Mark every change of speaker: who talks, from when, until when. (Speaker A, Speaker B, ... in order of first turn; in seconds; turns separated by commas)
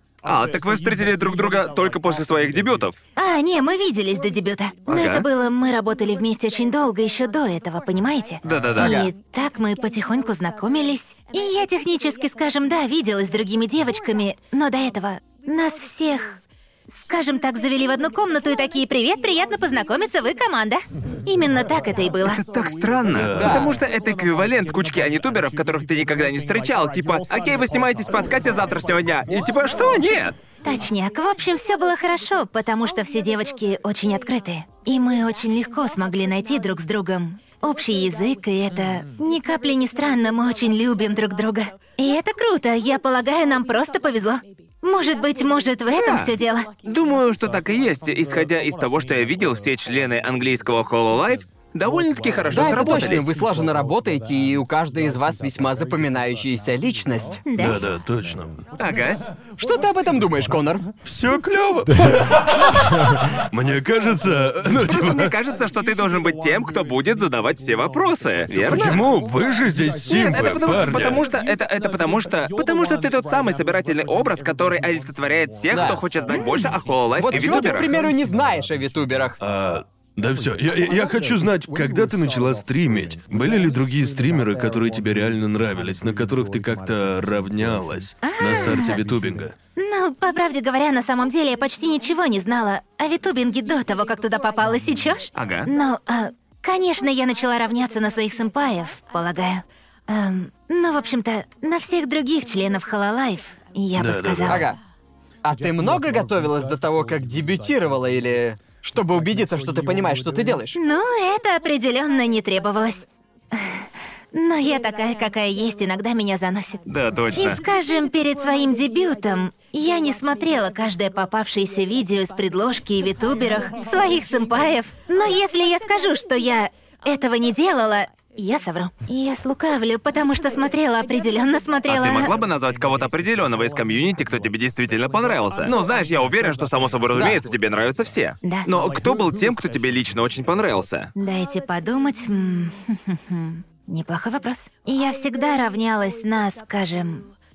Speaker A: 0.2-3.0, Speaker B: 3.1-22.4, Speaker A: 4.9-5.2, Speaker A: 8.4-9.1, Speaker C: 8.8-9.1, Speaker A: 22.2-30.4, Speaker D: 23.1-23.7, Speaker C: 23.4-23.8, Speaker B: 30.6-46.7, Speaker A: 45.9-46.3, Speaker A: 46.8-53.3, Speaker C: 52.5-57.4, Speaker B: 57.5-58.0, Speaker D: 57.6-58.6, Speaker A: 58.8-59.3, Speaker C: 59.6-60.9, Speaker D: 61.0-65.3, Speaker A: 64.9-69.0, Speaker D: 68.5-71.2, Speaker C: 68.6-69.0, Speaker A: 70.1-77.9, Speaker C: 75.7-76.0, Speaker B: 76.3-76.7, Speaker C: 77.2-79.4, Speaker D: 79.4-89.5, Speaker B: 88.2-89.0, Speaker B: 89.8-104.7, Speaker A: 95.4-95.7, Speaker D: 104.0-104.7, Speaker C: 104.5-104.8, Speaker C: 105.4-110.8, Speaker B: 110.8-132.3, Speaker A: 116.9-117.6, Speaker A: 131.9-141.1, Speaker C: 137.1-137.4, Speaker B: 138.4-138.7, Speaker B: 141.2-147.3